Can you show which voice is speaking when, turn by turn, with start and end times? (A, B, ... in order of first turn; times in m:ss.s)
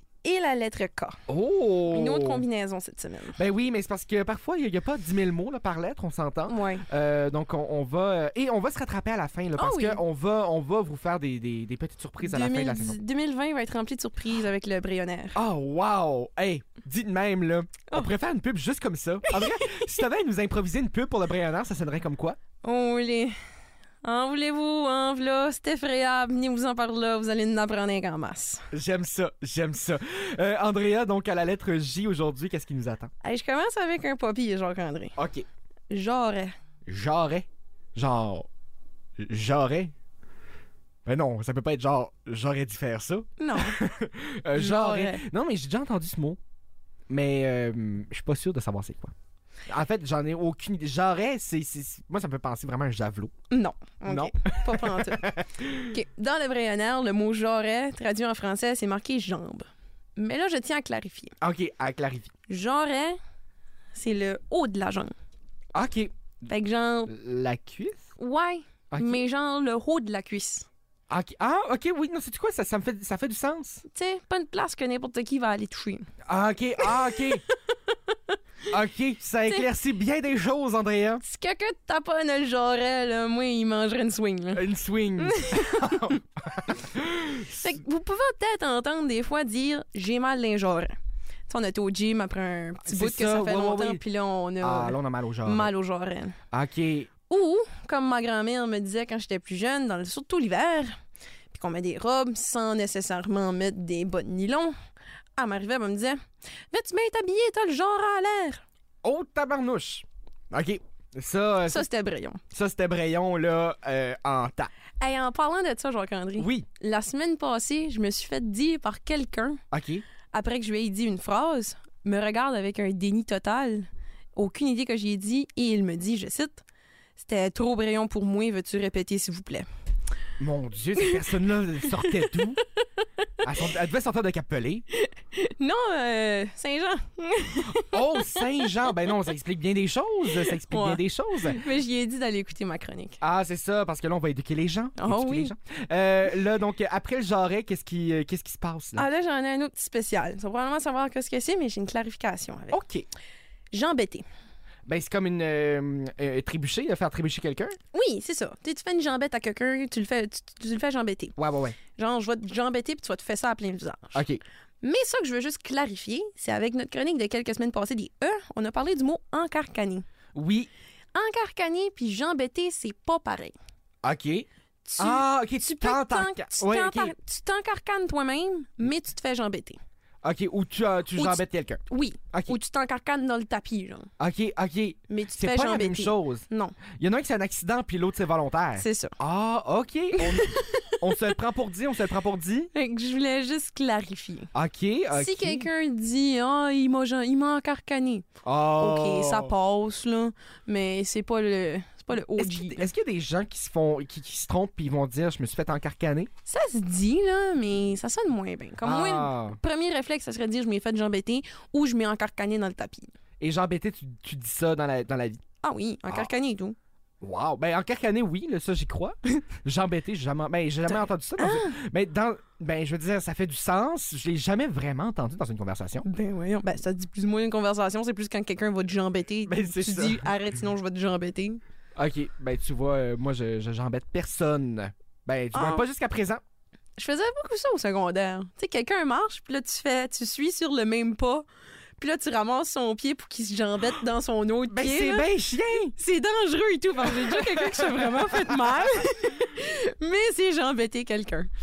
0:00.2-0:01.2 A
0:01.3-0:02.4 B
0:01.9-0:03.4 A
0:03.4-0:13.0 B
0:06.5-0:06.9 A
0:09.6-0:10.0 A
0:12.2-0:15.4 A
0:15.4-0:22.4 B
0:19.3-0:19.8 A
0:22.6-0:23.4 A
0:24.0-0:28.7 A
0:28.7-0:33.1 B
0:33.2-0:35.2 A
0:35.2-0:35.4 B
0:35.9-0:36.5 A
0:36.9-0:38.5 B
0:39.2-0:39.9 B
0:41.1-0:46.4 B
0:43.4-0:43.8 A
0:44.6-0:45.2 A
0:47.1-0:49.1 B
0:49.7-0:53.3 B
0:53.5-1:01.3 A
0:54.1-0:56.0 B
1:01.4-1:02.3 B
1:02.5-1:03.2 A
1:03.9-1:05.1 A
1:05.7-1:06.1 B
1:06.5-1:07.1 A
1:07.1-1:08.1 B
1:08.2-1:10.7 A
1:08.9-1:09.2 B
1:11.1-1:13.8 B
1:13.9-1:16.1 A
1:16.3-1:17.4 B
1:17.5-1:18.3 A
1:18.7-1:21.2 B
1:21.2-1:24.7 A
1:24.5-1:27.7 B
1:25.2-1:26.0 A
1:27.5-1:31.0 A
1:31.5-1:36.4 A
1:32.8-1:34.0 B
1:34.6-1:35.7 B
1:36.5-1:37.1 B
1:37.3-1:40.9 A
1:41.5-1:44.7 A
1:45.4-1:46.2 A
1:46.7-1:48.6 A
1:49.0-1:51.9 B
1:51.7-1:52.4 A
1:52.5-1:54.7 B
1:55.0-1:59.6 A
1:56.4-1:56.7 B
1:59.7-2:00.1 B
2:00.3-2:06.6 A
2:07.2-2:09.7 A
2:10.4-2:12.6 B
2:11.0-2:11.3 A
2:11.9-2:13.3 A
2:13.4-2:14.9 B
2:14.9-2:18.8 A
2:17.7-2:21.6 B
2:20.4-2:23.2 A
2:23.2-2:29.1 B
2:25.0-2:25.5 A
2:29.0-2:32.8 A
2:32.7-2:33.1 B
2:33.7-2:34.2 A
2:34.9-2:37.8 B
2:37.9-2:41.4 A
2:41.4-2:41.8 B
2:41.9-2:44.2 A
2:44.2-2:44.4 B
2:44.8-2:50.1 A
2:50.4-2:50.7 B
2:51.1-2:53.6 A
2:54.0-2:54.5 B
2:54.8-2:59.8 A
2:55.0-2:57.1 B
3:00.2-3:01.8 B
3:01.2-3:04.1 A
3:04.2-3:12.7 B
3:05.1-3:06.8 A
3:08.8-3:09.2 A
3:10.2-3:10.9 A
3:12.7-3:14.5 A
3:14.5-3:15.7 B
3:15.1-3:18.2 A
3:18.4-3:19.6 B
3:18.8-3:22.9 A
3:22.4-3:26.3 B
3:26.5-3:33.1 A
3:28.8-3:29.6 B
3:33.4-3:35.4 B
3:35.6-3:36.8 A
3:37.2-3:46.0 B
3:40.9-3:41.7 A
3:46.0-3:51.6 A
3:49.4-3:50.3 B
3:52.0-3:56.4 B
3:55.5-3:55.9 A
3:57.0-4:01.4 A
4:02.0-4:05.3 A
4:04.7-4:06.0 B
4:06.0-4:11.5 A
4:07.1-4:08.8 B